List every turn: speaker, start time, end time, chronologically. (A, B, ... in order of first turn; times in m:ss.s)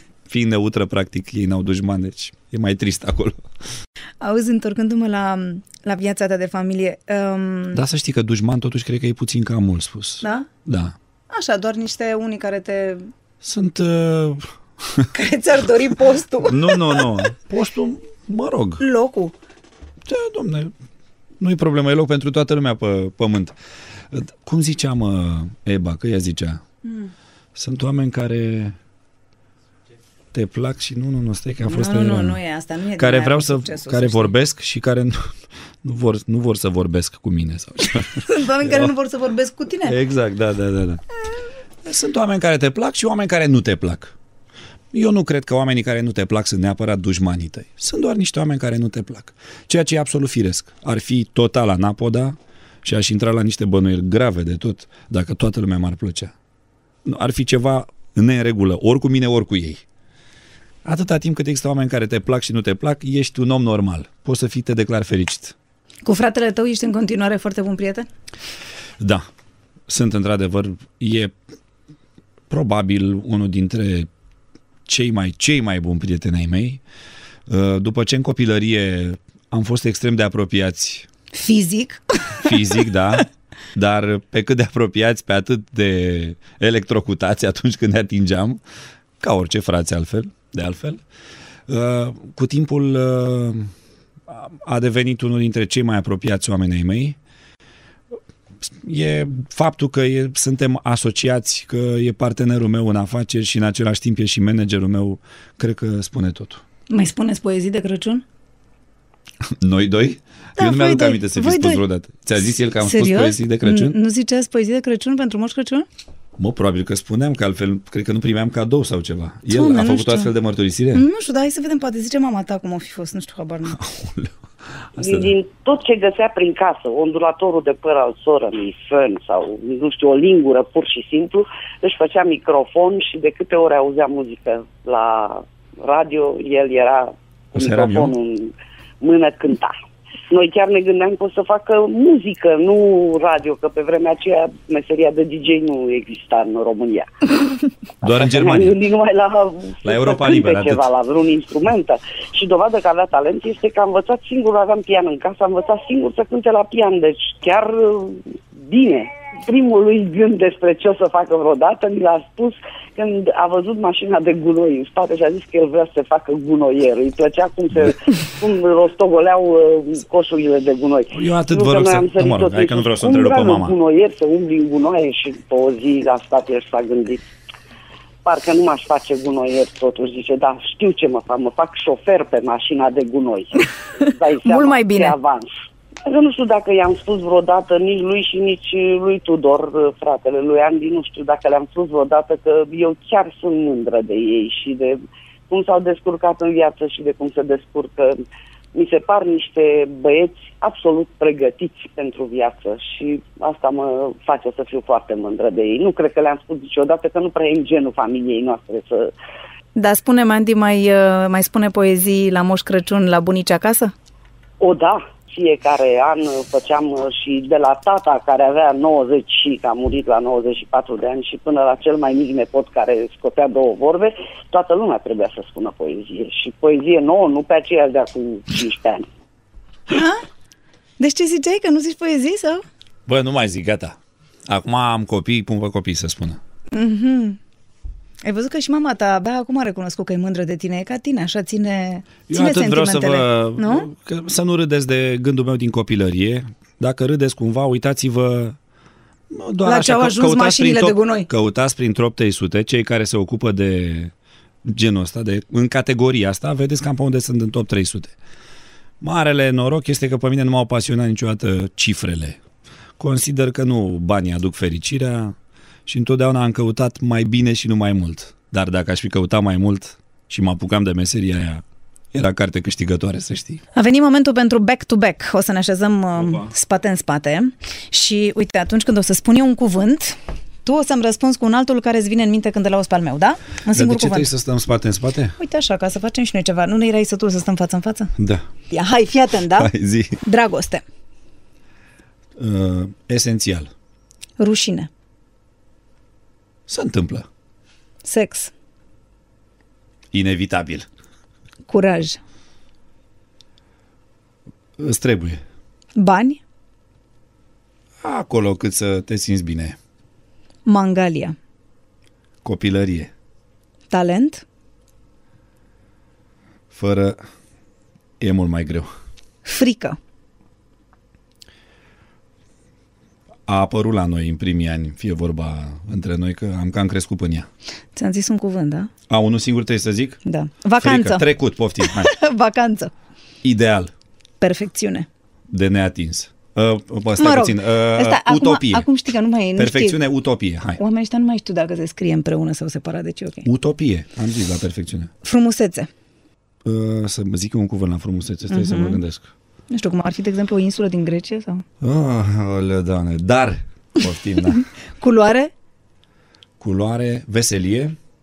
0:00.3-0:03.4 A
0:04.2-0:07.8 B
0:07.7-0:11.0 A
0:10.2-0:10.5 B
0:11.3-0:13.1 B
0:13.4-0:15.1 A
0:15.1-0:17.2 B
0:16.4-0:18.8 A
0:18.8-0:19.4 B
0:20.1-0:20.7 A
0:21.4-0:23.6 A
0:24.1-0:26.6 A
0:26.8-0:27.1 B
0:27.6-0:28.8 A
0:30.3-0:32.4 A
0:31.7-0:34.3 B
0:33.0-0:38.9 A
0:38.1-0:40.0 B
0:39.8-0:41.0 A
0:41.8-0:44.1 A
0:44.9-0:56.3 A
0:57.0-0:59.8 A
1:00.8-1:05.6 A
1:06.0-1:08.1 B
1:09.0-1:09.2 A
1:09.9-1:11.3 A
1:12.5-1:14.1 A
1:14.9-1:16.8 A
1:17.5-1:21.1 A
1:21.3-1:22.6 B
1:22.4-1:28.6 A
1:29.2-1:31.0 A
1:31.7-1:33.7 A
1:34.3-1:37.2 A
1:38.6-1:46.6 A
1:46.9-1:48.2 B
1:49.4-1:54.0 A
1:50.6-1:51.8 B
1:52.8-1:55.9 B
1:56.4-2:01.1 A
1:59.5-2:00.3 B
2:00.9-2:03.8 B
2:03.7-2:04.4 A
2:05.0-2:05.3 A
2:05.0-2:19.8 C
2:17.5-2:18.2 A
2:20.3-2:57.2 C
2:28.0-2:28.8 A
2:29.8-2:30.8 A
2:51.1-2:53.8 A
2:58.2-3:05.5 C
3:04.4-3:05.2 B
3:06.1-3:15.0 C
3:15.5-3:18.2 C
3:18.7-3:29.1 C
3:29.8-3:33.9 B
3:34.6-3:49.1 C
3:49.9-3:50.2 B
3:51.0-3:52.6 B
3:53.1-3:56.4 A
3:56.7-3:57.4 B
3:58.2-4:03.9 B
4:02.3-4:08.6 A
4:09.3-4:14.1 A
4:09.6-4:11.3 B
4:14.6-4:18.2 A
4:19.0-4:22.4 A
4:23.0-4:25.4 A
4:25.9-4:33.6 A
4:33.8-4:44.3 B
4:36.2-4:36.5 A
4:43.7-4:45.4 A
4:45.4-4:48.1 B
4:48.2-4:48.5 A
4:48.7-4:49.7 B
4:49.6-4:50.2 A
4:50.2-4:50.8 B
4:52.4-4:53.7 A
4:54.4-4:54.9 B
4:56.7-4:57.3 A
4:58.0-4:58.5 B
5:00.1-5:00.9 A
5:01.7-5:02.2 B
5:04.8-5:05.4 A
5:06.0-5:06.4 B
5:08.0-5:09.8 A
5:10.7-5:11.4 B
5:12.4-5:13.1 A
5:13.9-5:14.4 B
5:16.7-5:17.2 A
5:18.2-5:18.9 A
5:19.4-5:20.0 B
5:23.5-5:27.5 A
5:28.0-5:28.9 B
5:29.1-5:30.2 A
5:30.3-5:31.3 B
5:30.8-5:32.1 A
5:31.8-5:32.9 B
5:33.4-5:33.9 A
5:34.4-5:35.1 B
5:35.5-5:38.9 A
5:37.2-5:40.0 B
5:39.6-5:40.8 A
5:40.8-5:43.5 B
5:43.4-5:45.1 A
5:45.2-5:45.9 B
5:46.6-5:49.3 A
5:48.5-5:49.0 B
5:49.7-5:51.6 B
5:51.8-5:54.6 A
5:55.0-5:55.5 B
5:56.6-5:58.0 A